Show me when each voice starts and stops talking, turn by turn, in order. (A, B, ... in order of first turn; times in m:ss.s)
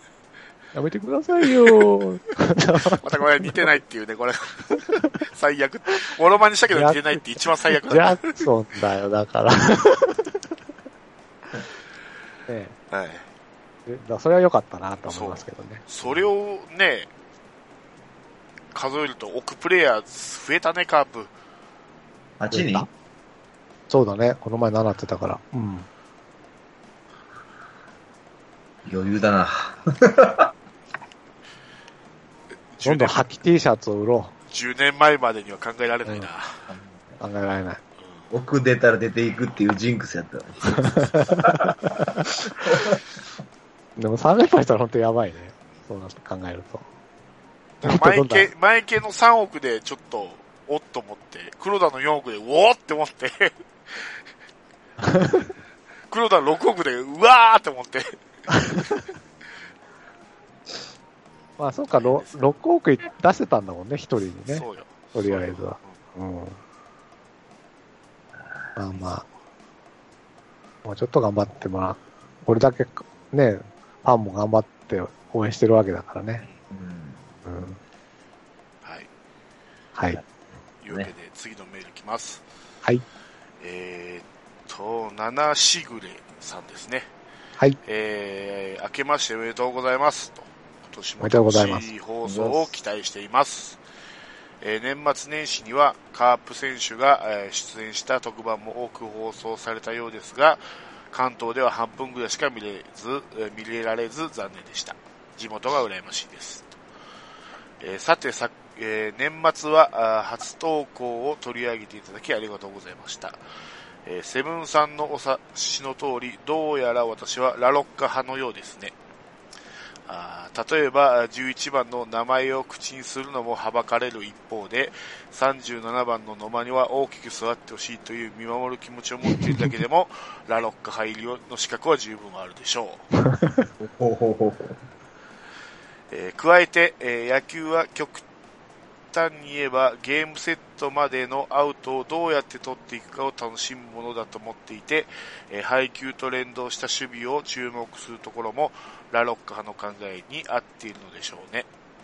0:00.7-0:03.6 A
0:01.5-0:01.9 B
0:02.9-0:08.4 B
0:06.7-0:07.2 A
0:07.8-0:10.5 A
0:12.5-0:12.7 A
0:12.9-0:13.3 B
0:13.8-0:15.8 A
0:15.1-0:17.1 B
0:18.7-0:21.3 B
0:22.4-0:22.9 C
0:22.5-0:22.9 A
0:23.9-0:25.9 A
0:28.8-0:30.5 C
0:32.7-0:33.3 B
0:32.8-0:34.3 A
0:34.5-0:36.6 B
0:36.7-0:37.2 C
0:37.2-0:37.8 A
0:38.3-0:43.0 C
0:40.7-0:41.0 B
0:41.1-0:42.2 A
0:44.0-0:46.8 A
0:47.8-0:54.2 B
0:47.8-0:48.5 A
0:55.0-0:55.5 A
0:56.1-0:59.0 B
1:01.6-1:06.6 A
1:01.9-1:02.3 B
1:04.5-1:06.0 B
1:08.4-1:08.6 C
1:08.8-1:09.2 A
1:10.8-1:16.4 A
1:16.7-1:17.2 C
1:17.4-1:17.8 A
1:20.8-1:22.4 B
1:20.8-1:21.1 C
1:23.6-1:27.1 B
1:27.8-1:33.8 B
1:31.2-1:31.9 A
1:32.2-1:32.7 C
1:34.6-1:46.7 B
1:47.8-1:53.4 B
1:54.0-1:58.9 B
2:00.1-2:13.1 B
2:09.4-2:09.7 A
2:13.8-2:14.8 C
2:16.1-2:18.2 B
2:19.1-2:31.7 B